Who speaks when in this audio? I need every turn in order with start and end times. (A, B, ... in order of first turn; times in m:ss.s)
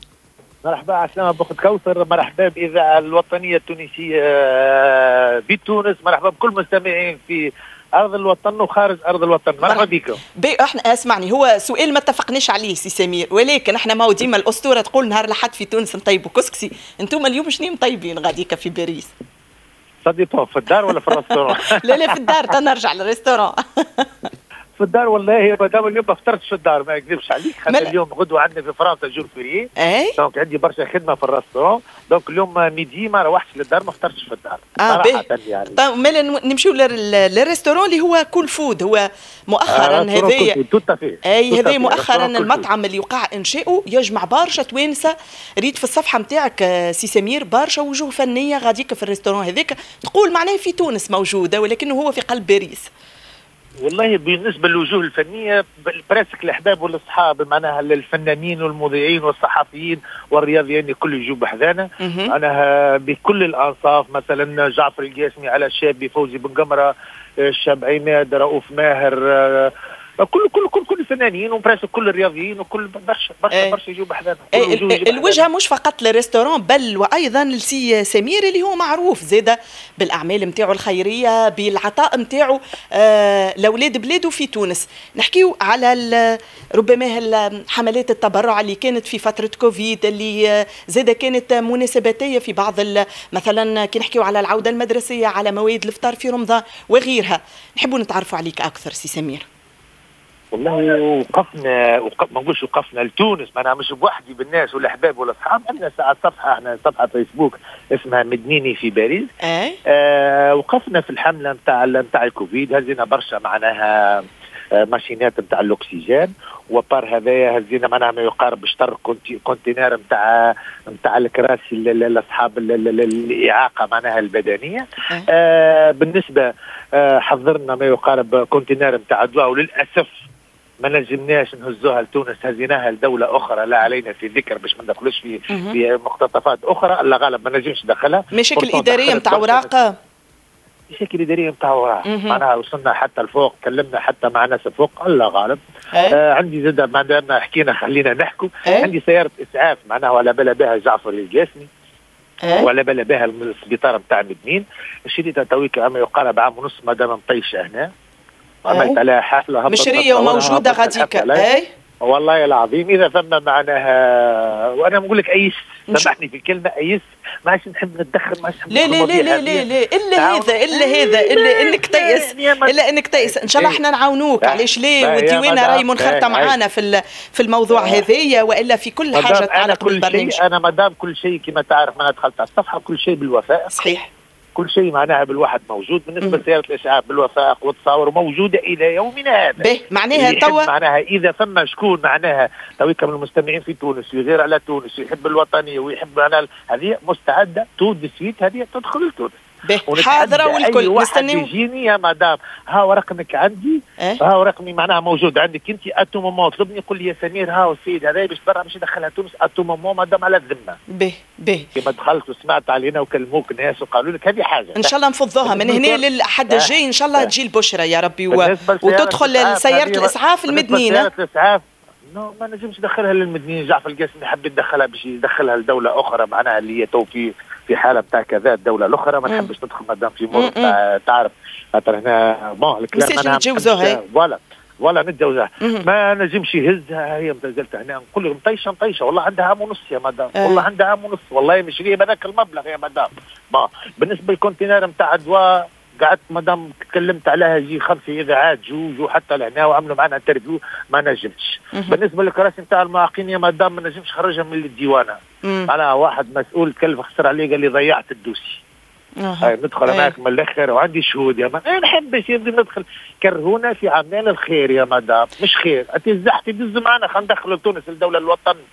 0:00.6-0:10.2 A
0:09.6-0:19.1 B
0:20.0-0:22.4 A
0:21.2-0:24.3 B
0:24.8-0:35.8 A
0:27.7-0:27.9 B
0:29.8-0:30.2 B
0:34.8-0:40.6 B
0:39.7-0:42.6 A
0:41.2-0:52.9 B
0:53.8-1:15.4 A
1:02.0-1:02.3 B
1:13.5-1:13.8 B
1:14.5-1:39.4 B
1:40.5-1:49.3 A
1:49.4-1:49.8 B
1:49.8-1:54.2 A
1:54.8-2:10.2 A
2:10.8-2:19.7 A
2:15.5-2:15.8 B
2:18.3-2:19.9 B
2:20.9-2:31.7 A
2:22.1-2:22.4 B
2:28.6-2:28.9 B
2:32.4-2:32.7 B
2:32.5-2:37.9 A
2:38.7-2:41.5 A
2:38.7-2:39.0 B
2:39.7-2:41.7 B
2:42.0-2:53.8 A
2:48.7-3:00.4 B
2:54.4-2:56.6 A
2:57.7-2:58.1 A
2:59.1-3:03.9 A
3:03.7-3:04.1 B
3:04.6-3:30.8 A
3:09.6-3:10.7 B
3:19.6-3:21.5 B
3:30.9-3:31.7 B
3:31.8-3:34.9 A
3:34.8-3:41.1 B
3:35.4-3:37.3 A
3:38.3-4:18.6 A
3:50.3-3:50.8 B
3:52.9-3:54.0 B
3:55.6-3:55.8 B
4:00.4-4:00.6 B
4:15.4-4:15.7 B
4:19.2-4:20.1 B
4:19.4-4:28.6 A